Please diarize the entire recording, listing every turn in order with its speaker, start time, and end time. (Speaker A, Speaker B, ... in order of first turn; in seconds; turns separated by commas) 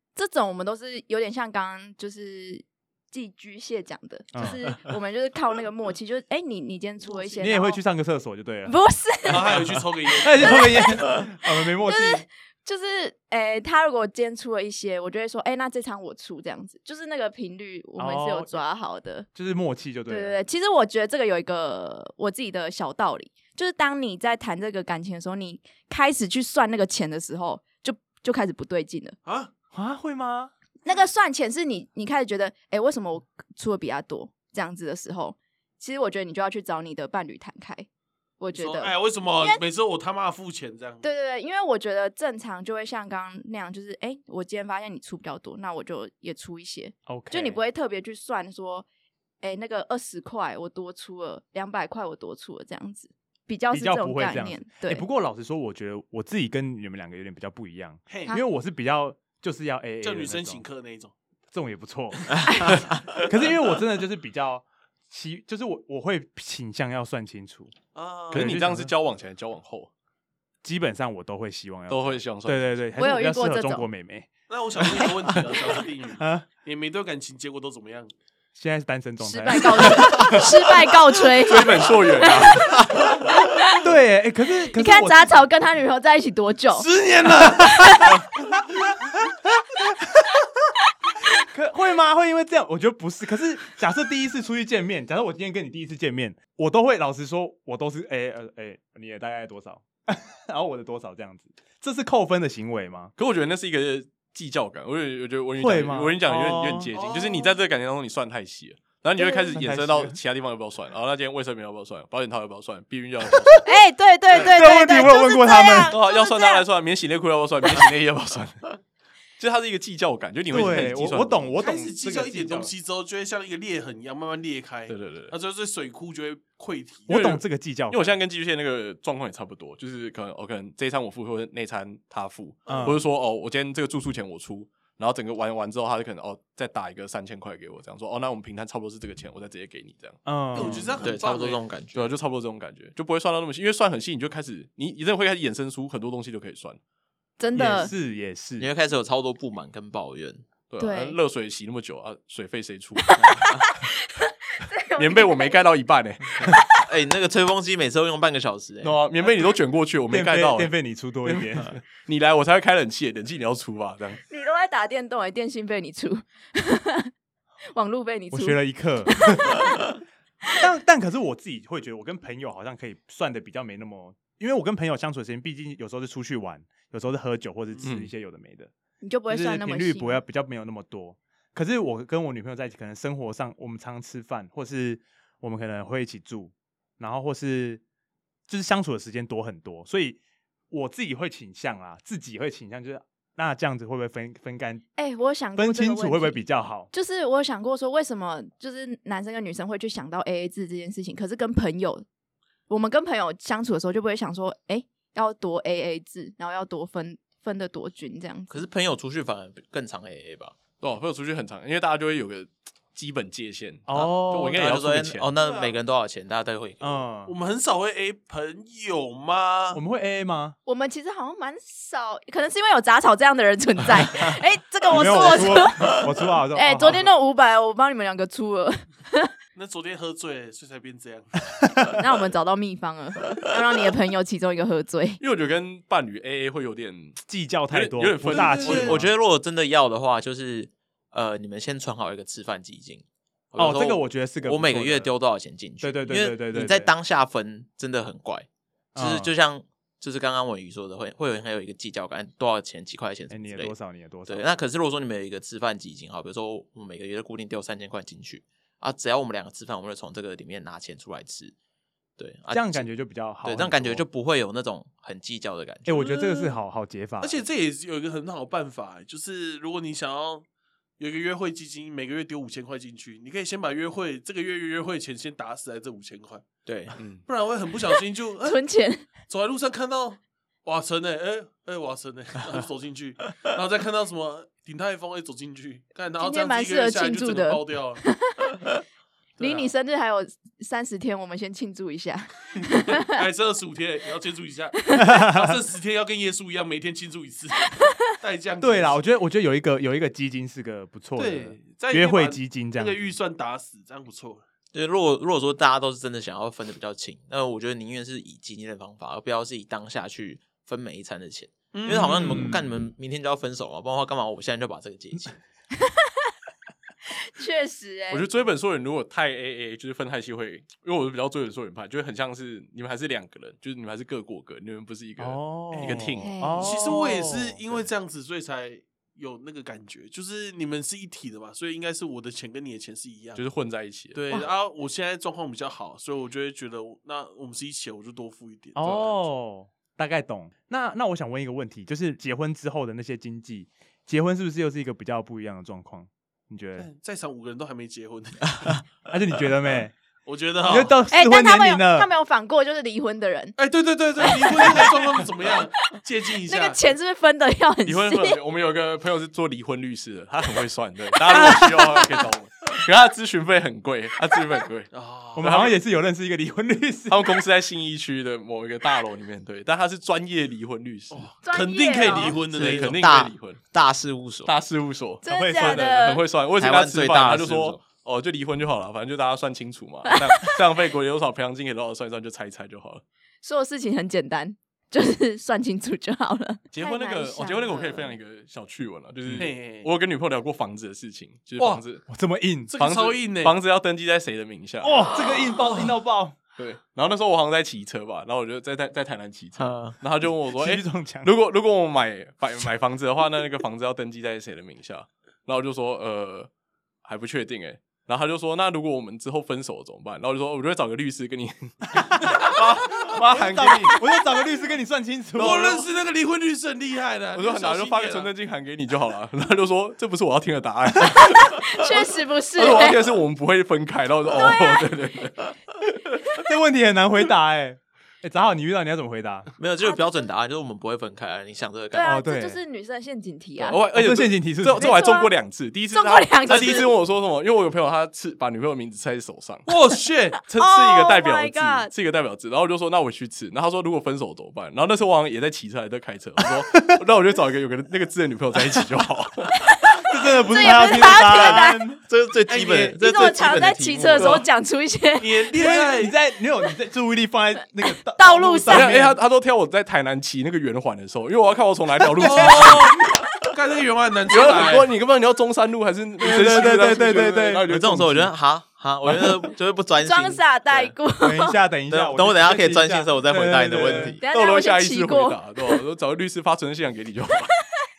Speaker A: 0.2-7.8, Speaker B: 4.3-4.6, Speaker B: 7.4-8.8, Speaker A: 8.7-9.6, Speaker C: 9.3-10.8, Speaker B: 10.2-12.2, Speaker A: 10.2-19.3, Speaker B: 18.0-18.6, Speaker B: 19.3-20.4, Speaker A: 20.1-29.2, Speaker C: 29.2-29.5, Speaker B: 29.7-30.5, Speaker A: 30.9-37.9, Speaker A: 38.4-39.6, Speaker C: 38.5-41.0, Speaker A: 41.0-48.9, Speaker B: 47.1-47.6, Speaker A: 49.4-55.0, Speaker B: 53.7-60.6, Speaker C: 58.1-58.3, Speaker C: 60.0-61.1, Speaker B: 61.5-67.8, Speaker A: 62.5-62.8, Speaker C: 68.0-68.5, Speaker B: 68.3-68.9, Speaker D: 68.3-69.9, Speaker B: 70.6-74.3, Speaker D: 71.9-72.8, Speaker A: 73.0-73.9, Speaker C: 74.5-78.1, Speaker B: 76.2-76.5, Speaker B: 78.5-80.3, Speaker A: 79.2-82.9, Speaker D: 80.1-80.4, Speaker D: 81.4-82.9, Speaker B: 83.8-85.4, Speaker A: 84.8-86.9, Speaker C: 86.7-88.2, Speaker A: 87.6-88.2, Speaker B: 89.8-90.5, Speaker B: 91.5-103.1, Speaker D: 103.2-113.7, Speaker B: 105.6-106.9, Speaker C: 106.9-107.5, Speaker A: 109.2-109.6, Speaker B: 109.5-110.2, Speaker A: 113.7-116.7, Speaker B: 114.3-115.9, Speaker D: 115.9-118.8, Speaker D: 119.4-121.5, Speaker B: 120.5-122.7, Speaker C: 121.6-127.2, Speaker D: 124.9-125.3, Speaker B: 127.1-128.2, Speaker D: 127.1-140.9, Speaker C: 132.7-133.0, Speaker B: 132.7-133.0, Speaker B: 140.3-141.0, Speaker C: 140.5-141.6, Speaker E: 141.0-142.1, Speaker D: 141.9-146.8, Speaker A: 147.4-147.9, Speaker B: 147.6-148.7, Speaker E: 148.6-150.4, Speaker D: 150.7-153.7, Speaker A: 150.8-151.2, Speaker A: 153.1-155.6, Speaker D: 155.0-156.6, Speaker E: 156.8-159.0, Speaker D: 158.8-164.2, Speaker B: 160.1-161.8, Speaker A: 164.3-167.1, Speaker A: 167.7-169.8, Speaker B: 168.3-169.6, Speaker B: 170.6-178.7, Speaker D: 177.8-178.1, Speaker A: 179.0-180.2, Speaker B: 179.3-187.8, Speaker B: 188.5-190.2, Speaker B: 190.7-194.8, Speaker A: 195.0-202.1, Speaker B: 195.6-196.9, Speaker A: 202.7-208.7, Speaker E: 208.5-210.6, Speaker D: 210.8-215.3, Speaker B: 213.9-214.6, Speaker E: 214.0-217.1, Speaker C: 215.4-215.8, Speaker B: 216.8-217.3, Speaker C: 217.3-219.8, Speaker B: 219.7-220.6, Speaker A: 220.7-229.3, Speaker B: 224.9-227.1, Speaker C: 229.6-231.4, Speaker A: 232.0-235.2, Speaker D: 235.2-239.1, Speaker B: 237.3-239.1, Speaker E: 238.3-253.8, Speaker B: 243.6-245.1, Speaker B: 245.8-246.9, Speaker B: 248.9-249.3, Speaker B: 253.3-254.5, Speaker E: 254.3-261.6, Speaker E: 262.2-262.9, Speaker B: 262.5-264.1, Speaker E: 263.4-266.0, Speaker B: 265.9-267.4, Speaker C: 265.9-266.6, Speaker C: 267.2-270.4, Speaker C: 271.0-276.5, Speaker E: 276.6-277.0, Speaker D: 277.0-277.2, Speaker C: 277.3-288.0, Speaker A: 278.4-279.1, Speaker A: 286.2-288.6, Speaker C: 289.4-289.7, Speaker A: 289.4-293.1, Speaker C: 292.7-299.0, Speaker B: 295.0-295.6, Speaker A: 297.7-298.0, Speaker B: 298.6-303.1, Speaker C: 301.2-304.4, Speaker E: 304.7-315.4, Speaker C: 311.7-312.6, Speaker B: 312.2-312.8, Speaker A: 315.8-316.1, Speaker A: 317.1-318.3, Speaker D: 318.1-326.3, Speaker B: 325.2-327.6, Speaker A: 326.2-327.0, Speaker C: 326.6-333.4, Speaker D: 333.4-334.3, Speaker C: 334.1-339.2, Speaker B: 338.8-346.9, Speaker C: 346.8-348.8, Speaker B: 349.1-350.0, Speaker C: 350.2-351.0, Speaker B: 350.6-352.1, Speaker A: 351.1-353.6, Speaker C: 353.6-356.8, Speaker A: 354.3-354.9, Speaker A: 356.4-358.4, Speaker D: 357.9-365.8, Speaker B: 361.3-361.8, Speaker C: 364.9-365.5, Speaker B: 365.4-367.4, Speaker D: 367.1-371.3, Speaker C: 371.4-373.0, Speaker A: 371.4-372.4, Speaker D: 372.3-373.6, Speaker E: 372.4-374.5, Speaker D: 374.4-383.0, Speaker A: 375.2-376.2, Speaker B: 375.3-375.8, Speaker E: 376.6-377.8, Speaker A: 380.1-380.4, Speaker A: 383.4-388.1, Speaker D: 386.7-392.1, Speaker C: 389.3-389.9, Speaker B: 392.1-392.7, Speaker C: 392.7-393.6, Speaker D: 392.8-395.0, Speaker B: 394.8-396.4, Speaker D: 396.6-406.5, Speaker E: 399.6-400.0, Speaker B: 400.5-401.3, Speaker D: 407.1-414.1, Speaker B: 412.0-412.3, Speaker B: 413.0-415.9, Speaker C: 415.4-418.3, Speaker D: 417.3-426.2, Speaker A: 421.1-423.1, Speaker A: 424.3-424.9, Speaker B: 426.4-429.5, Speaker E: 429.6-432.2, Speaker A: 429.8-430.3, Speaker A: 431.9-433.8, Speaker B: 432.0-432.6, Speaker D: 433.6-439.7, Speaker B: 433.9-434.9, Speaker A: 434.8-435.3, Speaker A: 435.9-436.9, Speaker E: 436.5-436.8, Speaker C: 439.7-440.4, Speaker A: 440.4-441.9, Speaker D: 440.4-449.6, Speaker A: 449.8-451.9, Speaker B: 450.1-452.0, Speaker E: 450.9-454.4, Speaker C: 452.5-452.9, Speaker A: 452.8-455.4, Speaker C: 455.2-456.2, Speaker B: 455.5-459.2, Speaker A: 458.2-458.9, Speaker D: 458.7-463.3, Speaker B: 462.1-462.8, Speaker C: 462.2-464.9, Speaker D: 464.3-468.3, Speaker B: 466.2-467.7, Speaker E: 467.6-470.9, Speaker A: 470.0-471.6, Speaker B: 471.2-474.2, Speaker E: 471.9-474.2, Speaker A: 474.2-475.8, Speaker D: 474.3-477.5